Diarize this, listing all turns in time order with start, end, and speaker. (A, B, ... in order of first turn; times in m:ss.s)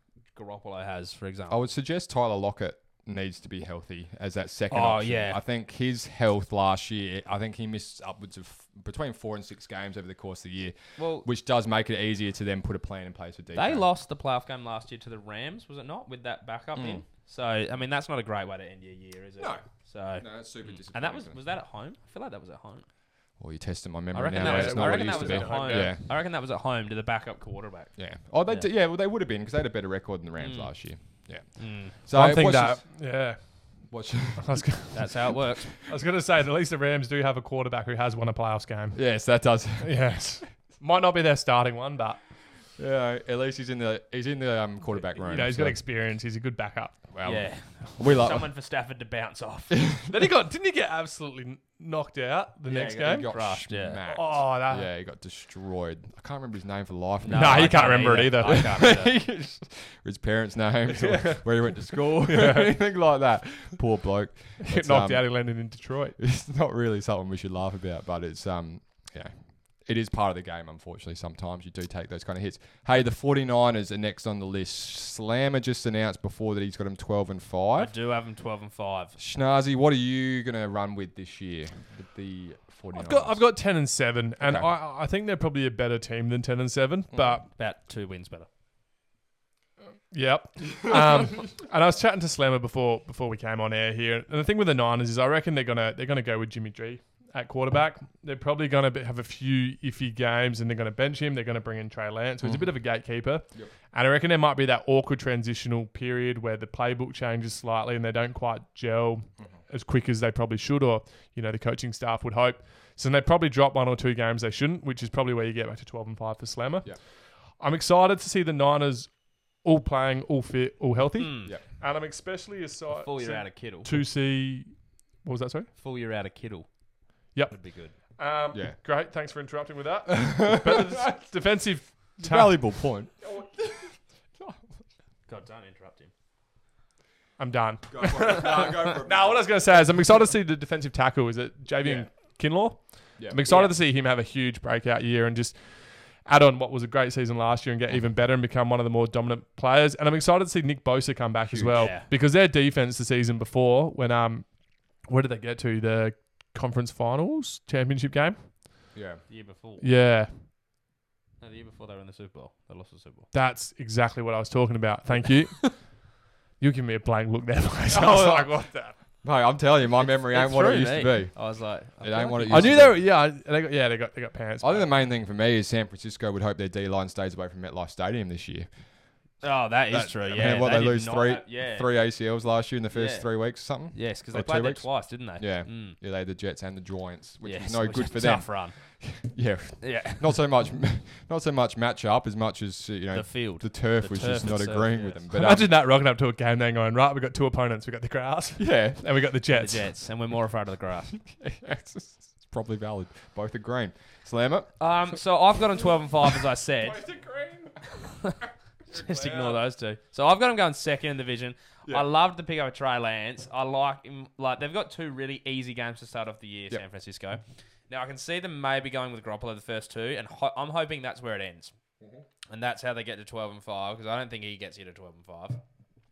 0:00.3-0:01.6 A
0:01.5-0:13.8 B
0:04.7-0:05.4 A
0:11.0-0:11.2 A
0:13.5-0:22.8 A
0:16.7-0:17.0 B
0:20.2-0:21.4 B
0:23.4-0:26.1 B
0:24.1-0:27.9 A
0:24.3-0:25.9 C
0:28.0-0:32.8 B
0:30.4-0:30.7 A
0:31.6-0:32.0 A
0:32.1-0:39.0 C
0:33.9-0:34.7 B
0:34.9-0:35.7 A
0:38.9-0:40.1 B
0:39.8-0:42.2 C
0:42.8-0:45.8 B
0:45.2-0:47.0 C
0:47.1-0:48.5 B
0:47.2-0:49.8 A
0:49.7-0:50.1 B
0:50.1-0:53.3 C
0:52.7-0:54.0 A
0:53.0-1:05.3 B
0:54.1-0:54.9 C
0:57.2-0:59.2 A
0:57.3-0:58.9 C
1:00.9-1:02.8 C
1:04.6-1:06.2 C
1:06.2-1:09.3 B
1:09.8-1:17.9 B
1:17.8-1:19.2 A
1:19.2-1:23.4 B
1:22.9-1:27.4 C
1:24.4-1:24.7 B
1:27.1-1:27.4 B
1:27.6-1:28.5 A
1:30.1-1:56.9 C
1:57.6-1:59.1 C
1:59.6-2:05.7 C
2:01.2-2:01.6 A
2:02.9-2:03.9 A
2:05.8-2:06.7 A
2:07.5-2:07.9 A
2:08.1-2:12.6 C
2:10.1-2:11.2 B
2:12.2-2:13.9 B
2:15.3-2:16.1 A
2:17.4-2:25.6 C
2:17.9-2:19.5 B
2:23.4-2:23.7 A
2:26.2-2:34.5 C
2:31.5-2:31.9 B
2:31.7-2:32.1 A
2:35.1-2:38.6 C
2:38.9-2:39.2 B
2:39.3-2:39.8 A
2:39.8-2:40.4 C
2:41.4-2:43.3 A
2:43.3-2:45.8 C
2:46.6-2:49.0 C
2:47.9-2:48.6 B
2:49.2-2:51.4 B
2:50.0-2:52.8 A
2:52.0-2:53.0 B
2:52.5-2:54.9 C
2:54.6-2:58.7 B
2:59.4-3:01.9 A
2:59.9-3:15.7 B
3:02.9-3:03.3 A
3:03.9-3:06.0 A
3:07.4-3:08.8 A
3:09.8-3:10.4 A
3:13.1-3:15.2 A
3:15.3-3:19.9 C
3:18.6-3:19.0 B
3:19.5-3:21.2 A
3:21.3-3:24.7 B
3:24.8-3:27.0 A
3:26.7-3:27.9 C
3:28.9-3:29.6 C
3:28.9-3:41.7 A
3:42.0-3:42.2 B
3:42.5-3:45.6 A